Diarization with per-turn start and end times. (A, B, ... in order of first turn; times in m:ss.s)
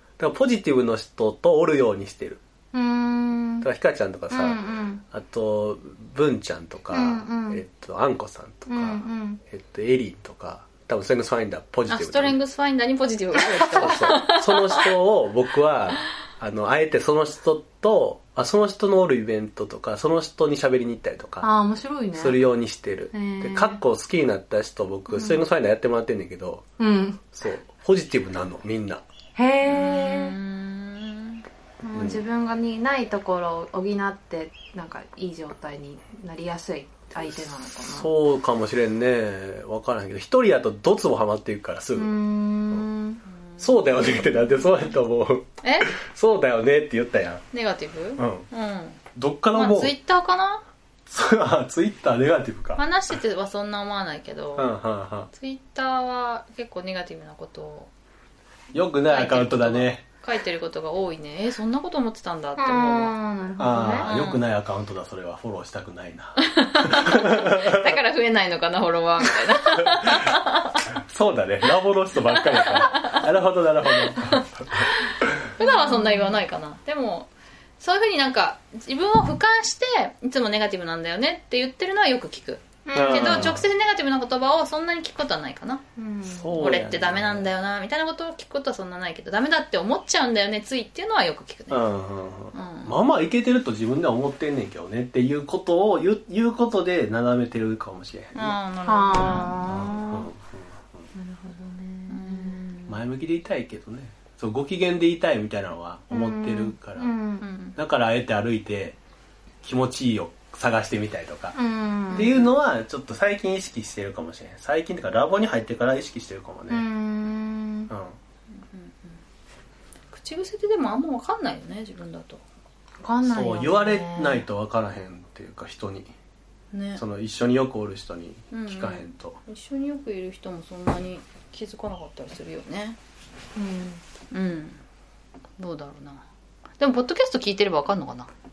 0:00.2-0:02.4 A
0:02.7-0:03.7 B
0:03.6-0:12.4 A
0:04.3-0:05.0 B
0:06.9-0:07.6 B
0:08.7-0:09.4 B
0:11.9-0:14.9 C
0:13.4-0:13.8 B
0:13.8-0:21.5 A
0:21.4-0:22.4 B
0:22.1-0:26.6 A
0:23.1-0:23.8 B
0:25.1-0:25.4 B
0:26.8-0:27.3 B
0:27.3-0:29.0 A
0:29.4-0:30.3 B
0:29.6-0:31.4 C
0:31.8-0:38.1 B
0:31.9-0:32.2 A
0:37.2-0:42.1 A
0:42.0-0:43.2 B
0:43.5-0:44.2 C
0:43.6-0:47.4 A
0:45.6-0:45.9 C
0:47.5-0:49.0 C
0:48.2-0:48.5 A
0:49.1-0:49.9 A
0:49.5-0:50.6 C
0:51.1-0:52.8 A
0:52.8-0:54.7 C
0:54.6-0:55.3 A
0:55.3-0:57.9 C
0:58.7-1:00.0 A
0:59.1-1:03.1 C
1:02.6-1:04.1 B
1:03.6-1:07.8 A
1:04.0-1:04.4 C
1:06.4-1:10.9 C
1:11.1-1:15.3 A
1:12.3-1:13.3 C
1:14.8-1:25.8 C
1:15.6-1:16.4 B
1:22.8-1:23.6 B
1:22.9-1:23.7 A
1:26.0-1:26.6 B
1:26.2-1:27.5 A
1:26.5-1:31.8 C
1:31.7-1:38.6 A
1:32.5-1:33.0 C
1:38.3-1:39.7 C
1:38.8-1:40.3 B
1:39.7-1:40.6 A
1:41.1-1:42.6 B
1:42.1-1:43.0 C
1:42.9-1:47.1 A
1:46.1-1:47.4 B
1:47.4-1:47.8 C
1:47.8-1:49.0 A
1:49.6-1:51.6 A
1:51.5-1:52.4 B
1:52.1-1:52.5 C
1:52.1-1:56.8 A
1:56.7-1:57.9 B
1:57.9-1:58.2 A
1:58.6-1:59.2 C
2:00.1-2:02.4 C
2:03.0-2:04.5 B
2:03.2-2:06.1 A
2:06.7-2:07.0 C
2:07.0-2:09.4 A
2:08.5-2:13.0 C
2:13.6-2:14.0 B
2:14.3-2:14.8 C
2:15.6-2:16.2 C
2:16.8-2:18.3 C